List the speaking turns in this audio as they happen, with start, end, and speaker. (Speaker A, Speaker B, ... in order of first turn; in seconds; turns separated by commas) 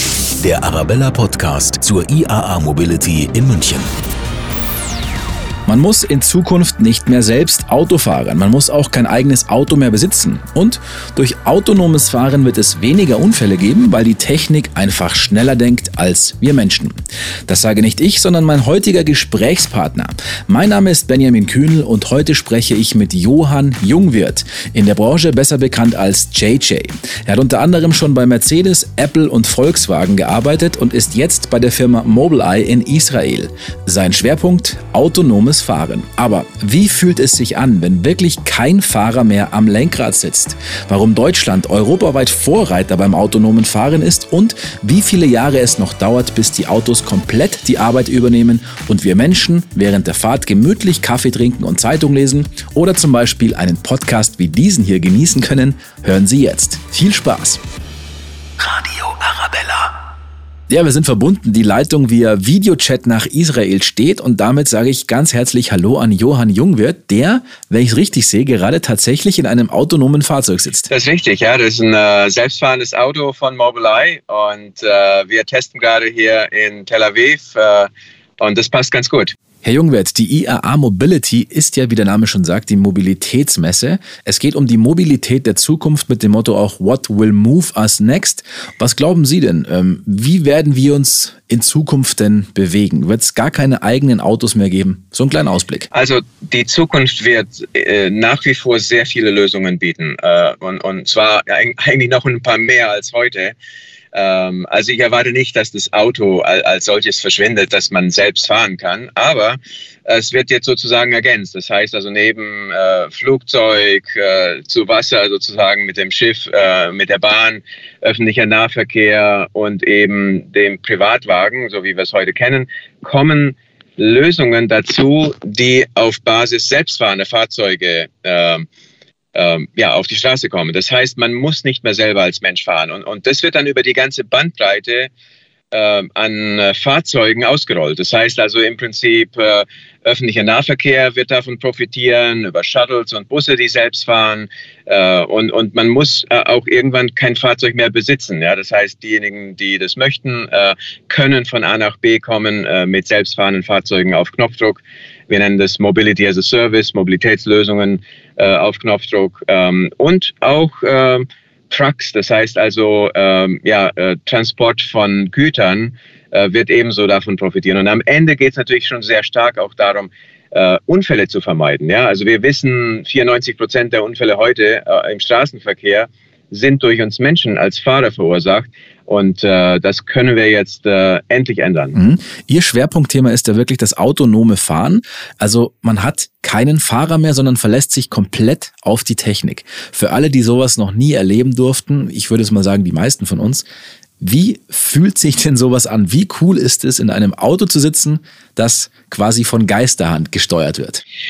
Speaker A: 0.4-3.9, Speaker B: 5.7-16.9, Speaker B: 17.5-57.6, Speaker A: 58.6-59.9, Speaker B: 60.7-70.9, Speaker C: 70.9-79.3, Speaker B: 79.6-95.9, Speaker C: 95.9-103.5, Speaker C: 104.1-128.7, Speaker C: 129.3-135.1, Speaker C: 135.7-181.9, Speaker B: 181.9-193.7, Speaker B: 194.2-201.0